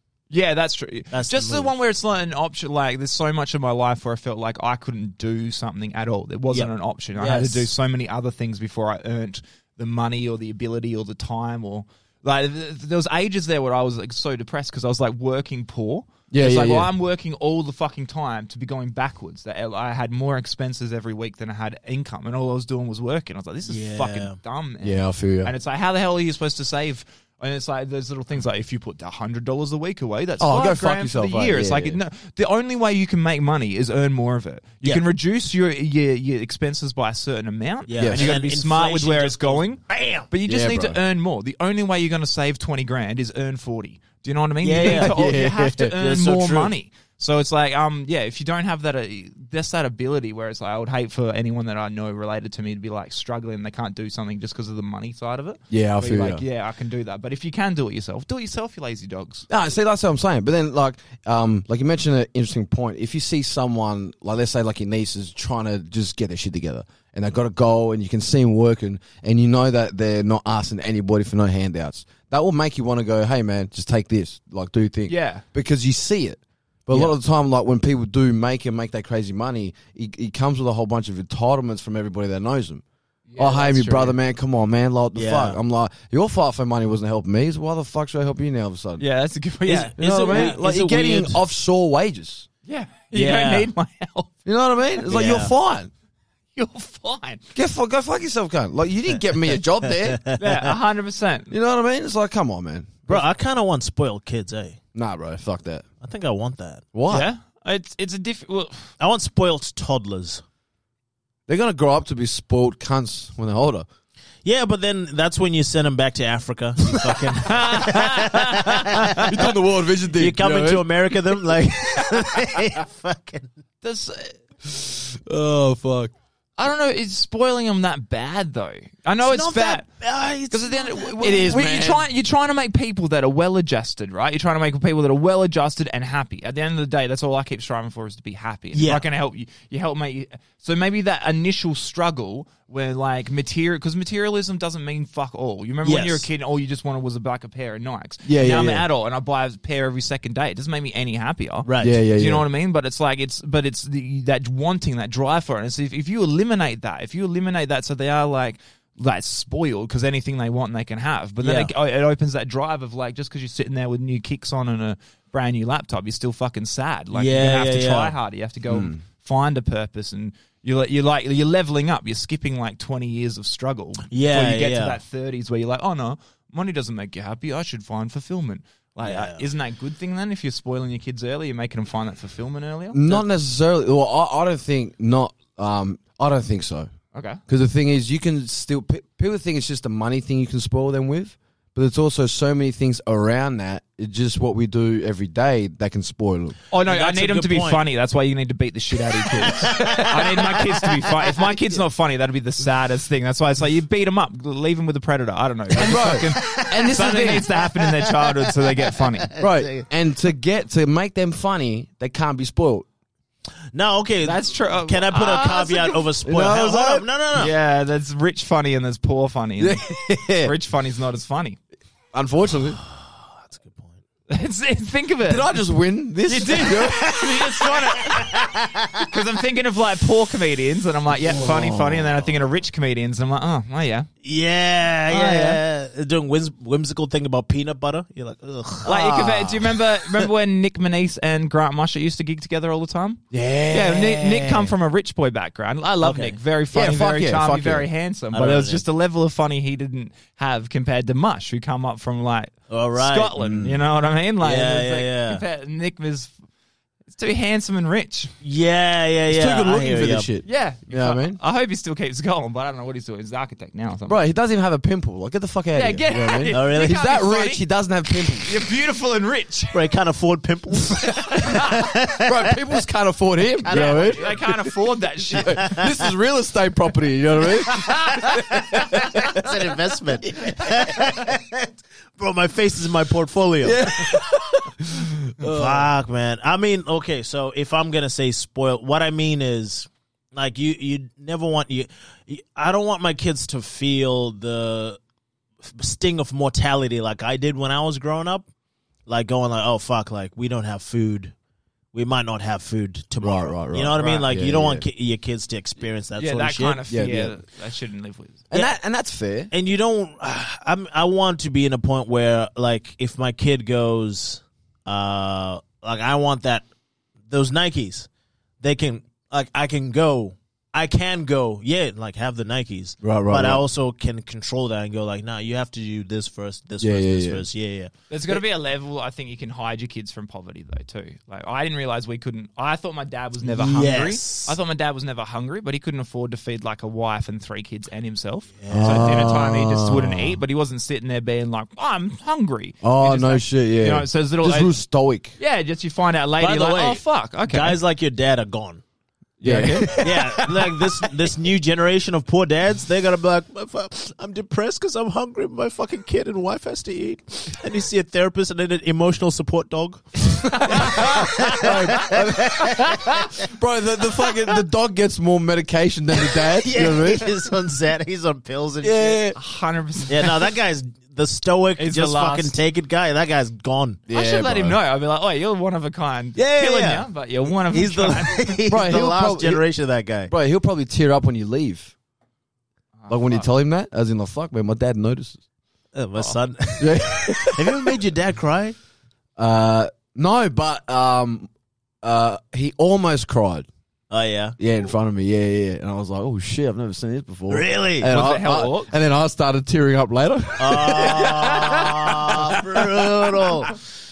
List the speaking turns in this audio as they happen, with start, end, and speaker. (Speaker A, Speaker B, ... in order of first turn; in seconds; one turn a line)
Speaker A: 0.3-59.5
Speaker B: 1.1-1.7
Speaker B: 6.5-7.7
Speaker C: 16.3-16.9
Speaker B: 23.7-24.4
Speaker C: 24.8-25.5
Speaker C: 30.4-32.0
Speaker B: 37.9-40.3
Speaker C: 38.0-38.3
Speaker C: 40.5-41.0
Speaker B: 44.6-45.1
Speaker C: 44.8-46.0
Speaker B: 46.0-46.7
Speaker C: 55.7-56.4
Speaker C: 59.5-82.8
Speaker A: 75.1-75.4
Speaker A: 83.3-84.1
Speaker C: 83.4-89.0
Speaker B: 85.1-85.6
Speaker A: 89.0-90.6
Speaker B: 89.6-91.4
Speaker C: 90.0-92.5
Speaker A: 92.7-94.3
Speaker B: 93.1-93.7
Speaker C: 94.4-95.9
Speaker B: 95.1-95.5
Speaker A: 96.5-97.4
Speaker C: 97.5-100.2
Speaker B: 100.1-100.7
Speaker A: 100.4-101.5
Speaker C: 101.5-103.2
Speaker B: 103.1-104.8
Speaker C: 104.9-105.8
Speaker B: 106.0-106.9
Speaker C: 106.9-107.3
Speaker A: 107.1-108.9
Speaker B: 109.0-110.4
Speaker C: 111.5-113.9
Speaker B: 114.4-119.4
Speaker A: 117.4-119.2
Speaker C: 119.2-120.9
Speaker B: 120.1-123.5
Speaker A: 123.8-124.4
Speaker C: 124.6-126.1
Speaker A: 126.6-129.9
Speaker B: 129.2-131.4
Speaker A: 130.5-183.2
Speaker C: 131.2-132.0
Speaker B: 138.7-139.1
Speaker B: 145.8-146.2
Speaker C: 148.2-148.9
Speaker B: 151.6-152.0
Speaker C: 151.8-152.4
Speaker B: 161.4-161.7
Speaker B: 167.1-168.1
Speaker C: 168.7-169.0
Speaker B: 174.1-175.0
Speaker B: 179.0-179.4
Speaker C: 182.9-186.9
Speaker A: 187.1-187.4
Speaker C: 187.5-196.6
Speaker A: 196.7-209.3
Speaker B: 196.8-197.8
Speaker B: 199.2-201.6
Speaker C: 205.7-207.5
Speaker B: 206.2-207.0
Speaker B: 207.6-209.9
Speaker C: 209.4-212.9
Speaker B: 213.7-217.5
Speaker A: 214.2-216.1
Speaker C: 216.2-217.1
Speaker A: 217.3-219.9
Speaker C: 219.6-220.5
Speaker A: 220.4-221.6
Speaker C: 222.1-222.8
Speaker B: 222.8-224.0
Speaker A: 224.3-225.6
Speaker C: 225.2-227.1
Speaker A: 226.2-228.3
Speaker B: 226.9-229.1
Speaker A: 229.0-234.1
Speaker C: 231.3-232.1
Speaker B: 234.2-239.8
Speaker A: 235.1-235.6
Speaker A: 238.8-256.3
Speaker C: 243.3-244.3
Speaker B: 244.4-244.7
Speaker B: 246.0-246.4
Speaker C: 246.7-247.9
Speaker B: 248.3-248.8
Speaker B: 252.7-253.4
Speaker C: 253.4-253.8
Speaker B: 254.4-255.4
Speaker A: 257.1-258.3
Speaker B: 258.4-260.3
Speaker C: 259.3-261.4
Speaker A: 260.4-264.2
Speaker C: 264.1-268.5
Speaker A: 265.7-267.6
Speaker B: 266.5-267.0
Speaker A: 268.4-269.8
Speaker B: 269.7-272.6
Speaker A: 271.0-271.7
Speaker C: 272.2-274.3
Speaker B: 273.6-274.5
Speaker A: 273.7-275.7
Speaker C: 275.3-279.5
Speaker B: 275.4-275.9
Speaker A: 277.7-278.4
Speaker B: 279.3-284.1
Speaker C: 280.3-281.2
Speaker C: 283.6-285.9
Speaker B: 285.4-295.0
Speaker B: 295.6-298.5
Speaker B: 299.1-301.3
Speaker B: 301.9-306.8
Speaker C: 303.2-304.8
Speaker A: 304.0-304.2
Speaker A: 306.2-308.4
Speaker C: 306.9-307.4
Speaker C: 308.5-309.5
Speaker B: 309.5-316.6
Speaker B: 317.3-318.1
Speaker B: 318.6-328.4
Speaker C: 323.0-323.6
Speaker C: 326.8-327.4
Speaker A: 328.1-344.7
Speaker B: 333.4-334.5
Speaker B: 338.6-339.4
Speaker C: 338.7-340.4
Speaker C: 342.8-345.3
Speaker A: 345.4-347.8
Speaker B: 346.4-348.8
Speaker A: 349.4-350.1
Speaker C: 349.4-350.7
Speaker B: 350.0-363.1
Speaker A: 360.5-361.8
Speaker C: 360.6-367.3
Speaker A: 362.7-363.2
Speaker B: 366.4-369.2
Speaker C: 368.8-369.4
Speaker A: 369.3-370.3
Speaker B: 370.1-374.0
Speaker A: 371.8-372.6
Speaker C: 374.1-374.8
Speaker A: 374.1-378.5
Speaker B: 376.4-380.3
Speaker C: 378.7-379.6
Speaker C: 380.3-381.9
Speaker A: 383.0-383.5
Speaker C: 383.1-385.4
Speaker B: 385.9-388.8
Speaker C: 386.8-388.0
Speaker C: 389.4-391.5
Speaker C: 392.0-393.7
Speaker B: 394.1-394.6
Speaker C: 394.6-402.4
Speaker B: 397.5-398.1
Speaker A: 398.1-398.9
Speaker B: 400.6-403.7
Speaker A: 401.1-402.6